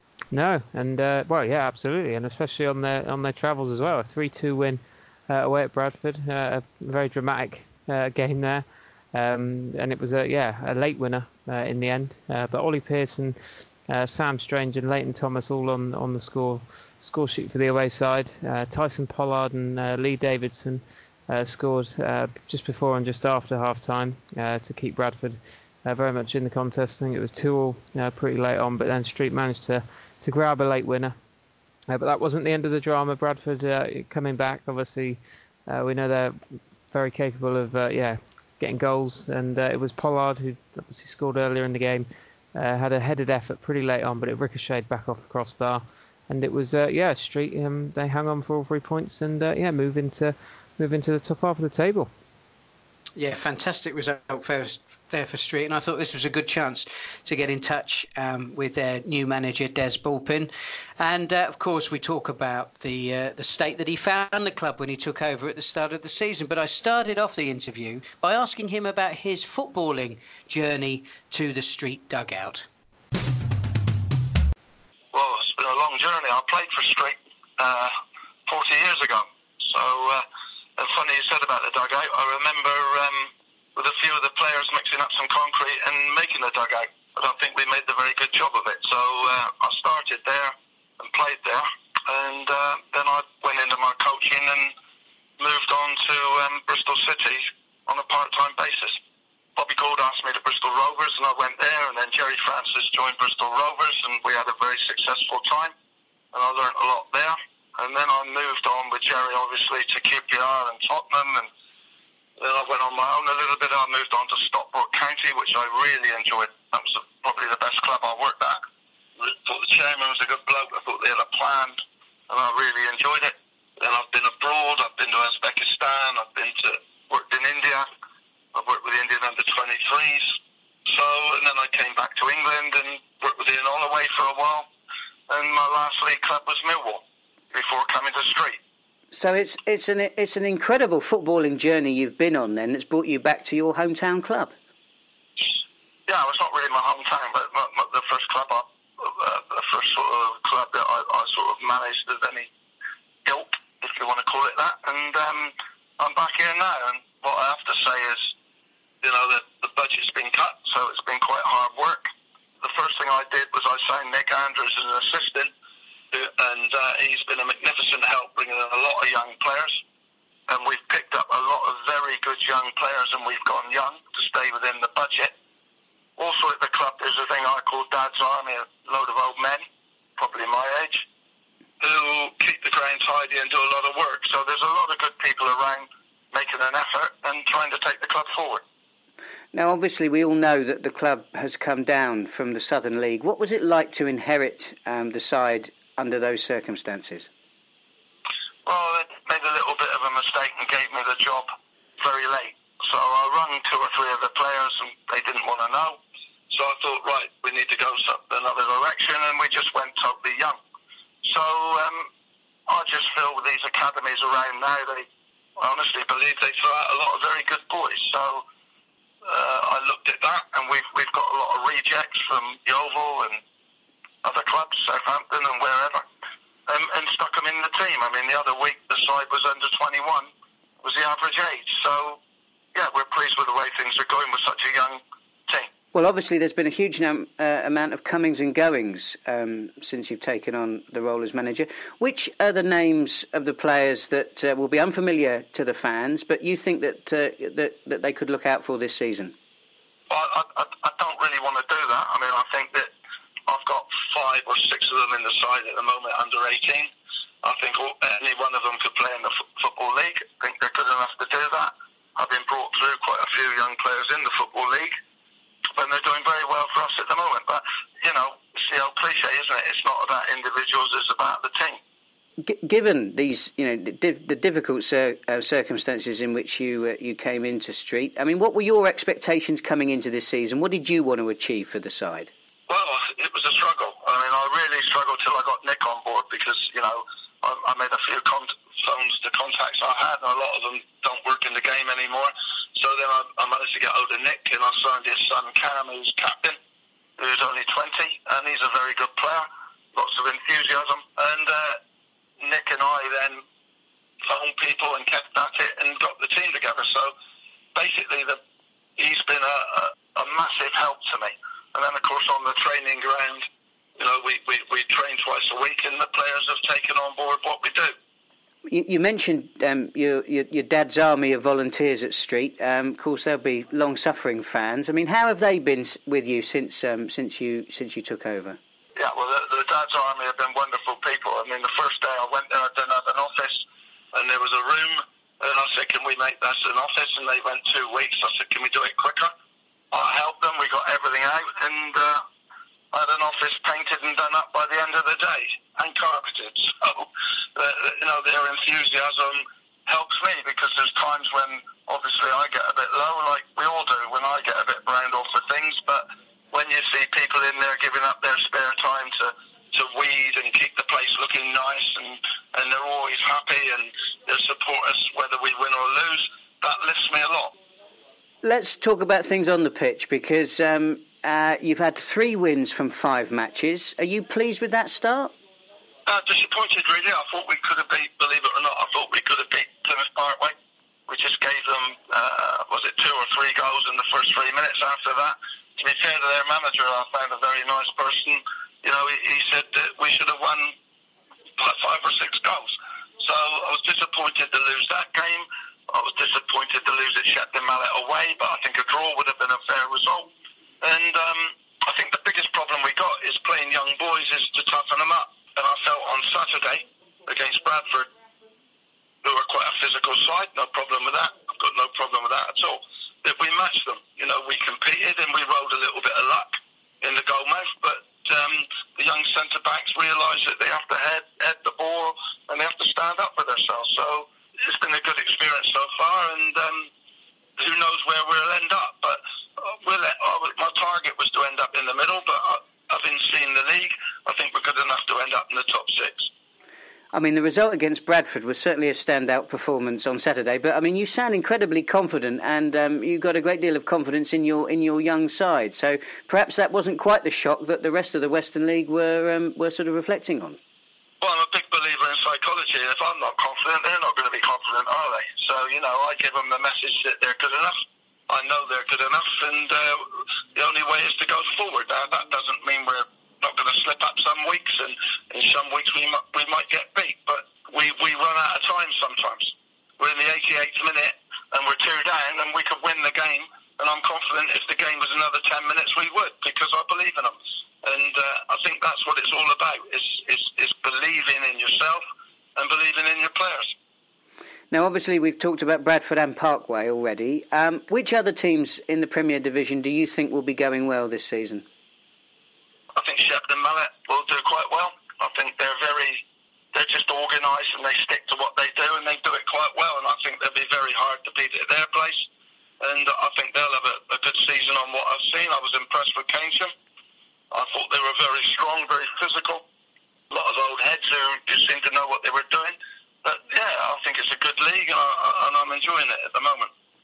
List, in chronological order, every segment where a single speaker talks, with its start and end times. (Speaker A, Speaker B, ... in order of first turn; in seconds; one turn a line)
Speaker A: 0.3-31.1
Speaker A: 31.9-52.1
Speaker B: 53.1-72.7
Speaker C: 75.1-78.0
Speaker C: 78.5-80.2
Speaker C: 80.8-94.7
Speaker C: 95.4-99.0
Speaker C: 99.6-105.7
Speaker C: 106.3-111.5
Speaker C: 112.4-118.6
Speaker C: 119.2-127.9
Speaker C: 128.5-134.7
Speaker C: 135.3-138.6
Speaker D: 139.1-144.5
Speaker C: 145.4-152.5
Speaker C: 153.2-158.3
Speaker C: 159.0-162.1
Speaker C: 162.6-165.5
Speaker C: 166.1-169.8
Speaker C: 170.5-175.3
Speaker C: 176.2-179.6
Speaker C: 180.2-181.1
Speaker C: 181.8-188.6
Speaker D: 189.5-197.3
Speaker C: 198.7-210.6
Speaker C: 211.2-212.1
Speaker C: 212.7-215.1
Speaker C: 215.6-218.4
Speaker C: 219.2-223.4
Speaker C: 224.2-226.0
Speaker C: 226.7-230.3
Speaker C: 230.8-232.2
Speaker C: 232.8-235.7
Speaker D: 235.9-249.3
Speaker C: 250.1-252.9
Speaker C: 253.5-256.9
Speaker C: 257.4-264.9
Speaker C: 265.8-271.8
Speaker D: 272.4-282.3
Speaker C: 282.7-296.6
Speaker C: 297.2-301.8
Speaker C: 302.4-303.4
Speaker C: 304.2-307.1
Speaker C: 307.8-308.4
Speaker C: 309.0-313.5
Speaker C: 314.0-317.9
Speaker D: 318.7-328.6
Speaker C: 329.0-339.3
Speaker C: 339.9-342.2
Speaker C: 342.9-367.5
Speaker D: 368.4-375.3
Speaker C: 376.1-380.6
Speaker C: 381.1-390.7
Speaker C: 391.6-400.3
Speaker C: 400.8-408.1
Speaker C: 409.2-426.9
Speaker C: 427.6-436.3
Speaker D: 437.1-450.6
Speaker C: 451.2-482.0
Speaker C: 482.6-483.7
Speaker D: 484.7-491.7
Speaker C: 493.0-496.2
Speaker C: 496.7-502.3
Speaker C: 502.8-506.7
Speaker C: 507.5-509.6
Speaker C: 510.3-516.7